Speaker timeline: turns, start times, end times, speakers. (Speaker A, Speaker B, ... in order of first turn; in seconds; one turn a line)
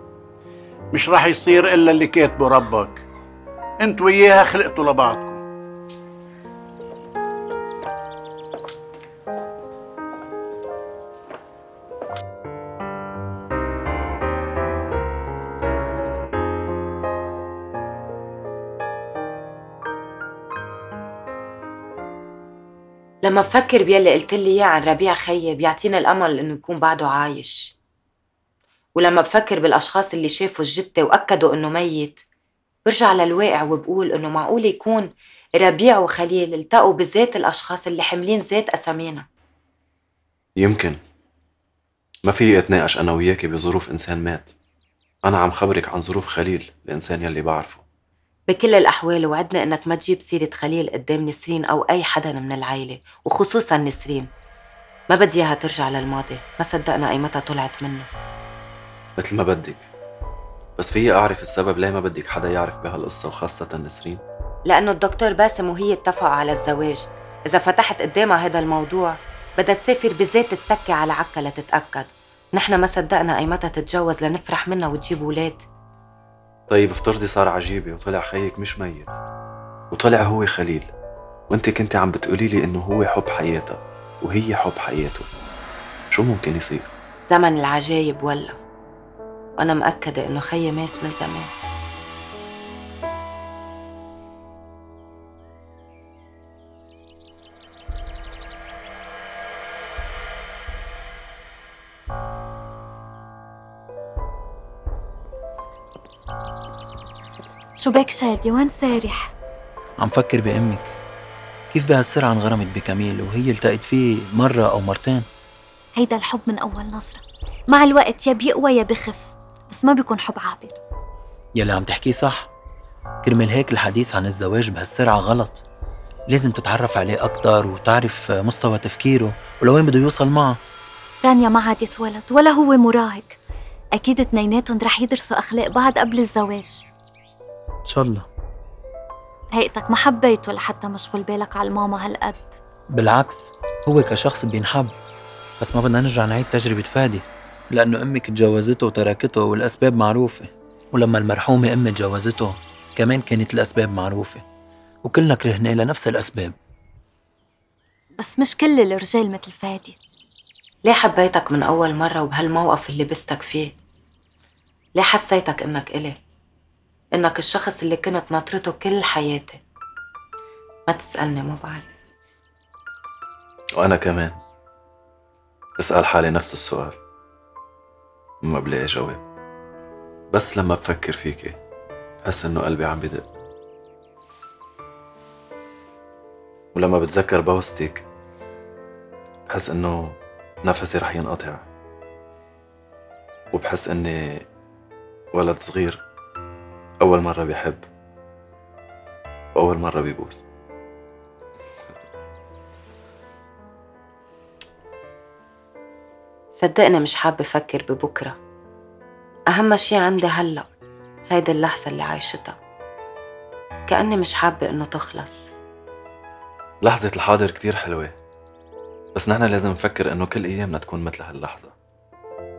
Speaker A: 0.9-3.0
Speaker A: 3.8-5.4
Speaker B: 23.2-27.7
Speaker B: 29.0-32.2
Speaker B: 32.9-39.2
Speaker C: 40.6-41.0
Speaker C: 42.3-44.5
Speaker C: 45.2-47.8
Speaker B: 48.5-54.3
Speaker B: 55.1-58.1
Speaker C: 59.2-59.9
Speaker C: 60.8-64.2
Speaker B: 64.7-75.7
Speaker C: 76.7-79.2
Speaker C: 79.9-80.9
Speaker C: 81.5-85.2
Speaker C: 86.1-86.9
Speaker B: 87.3-88.6
Speaker B: 89.6-91.5
Speaker D: 107.8-109.3
Speaker E: 110.0-110.9
Speaker E: 111.7-115.3
Speaker D: 116.0-120.8
Speaker E: 121.6-122.5
Speaker E: 123.2-125.6
Speaker E: 126.3-130.6
Speaker D: 131.2-133.4
Speaker D: 134.0-136.8
Speaker E: 137.9-138.3
Speaker D: 139.5-142.6
Speaker E: 142.9-144.9
Speaker E: 145.6-154.4
Speaker E: 155.1-156.6
Speaker D: 158.2-160.0
Speaker B: 160.8-163.7
Speaker B: 165.0-166.2
Speaker B: 167.2-169.6
Speaker B: 170.9-171.9
Speaker C: 173.8-174.4
Speaker C: 175.8-176.9
Speaker C: 178.4-179.2
Speaker C: 180.3-181.6
Speaker C: 182.2-183.2
Speaker C: 186.8-188.0
Speaker C: 189.5-191.6
Speaker C: 193.5-194.4
Speaker C: 195.3-196.0
Speaker C: 197.0-197.8
Speaker C: 199.6-200.4
Speaker B: 206.6-208.4
Speaker B: 209.5-210.7
Speaker B: 211.3-212.6
Speaker B: 213.9-215.5
Speaker C: 216.8-218.1
Speaker C: 219.2-221.7